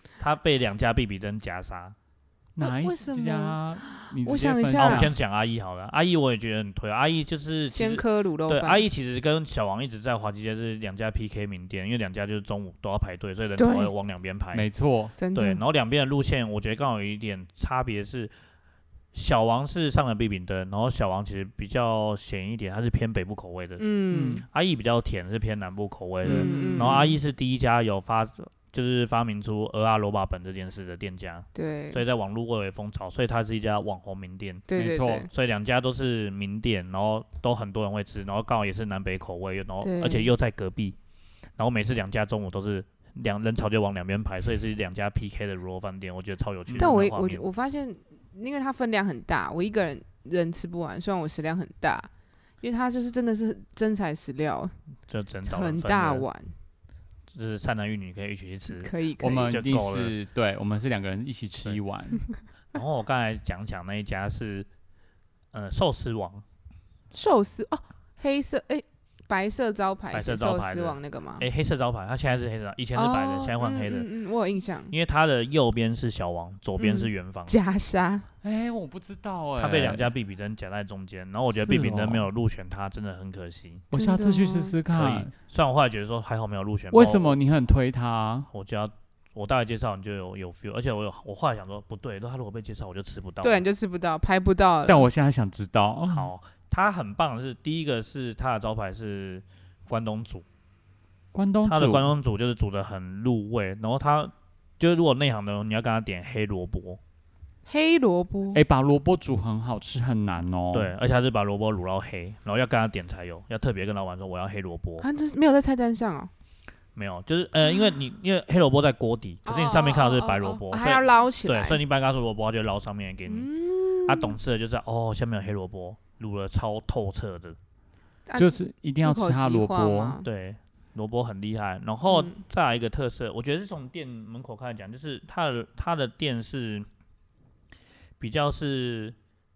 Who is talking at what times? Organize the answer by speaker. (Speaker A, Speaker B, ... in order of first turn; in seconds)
Speaker A: 0.2-1.9, 4.8-14.7, 15.3-18.3, 19.1-23.8, 24.4-34.7, 35.3-41.0, 41.6-47.4, 55.1-56.3, 57.3-60.1, 62.7-64.7, 65.5-66.4, 70.1-74.1, 74.9-77.5, 79.6-83.9, 84.9-87.4, 88.5-93.6, 96.1-100.4, 101.6-107.0, 110.7-115.0, 116.9-123.5, 124.0-127.6, 130.2-136.9, 138.2-139.1
Speaker B: 2.5-5.1, 14.5-15.1, 24.1-24.4, 26.2-27.1, 34.7-35.3, 46.7-46.9, 59.2-62.2, 78.4-80.1, 81.5-82.3, 83.9-85.3, 86.9-88.5, 94.8-96.3, 101.3-102.1, 108.5-110.9, 128.4-130.2
Speaker C: 2.6-5.1, 7.7-8.8, 13.6-13.9, 15.2-15.6, 23.8-24.4, 26.2-27.1, 31.5-32.0, 34.7-35.3, 39.8-40.3, 46.8-52.1, 52.6-54.7, 55.5-56.5, 58.7-59.6, 67.1-71.5, 72.9-74.9, 76.8-78.2, 83.9-84.8, 93.4-95.1, 107.7-108.6, 115.0-116.3, 119.4-121.8, 123.3-124.4, 128.3-130.3, 132.1-132.4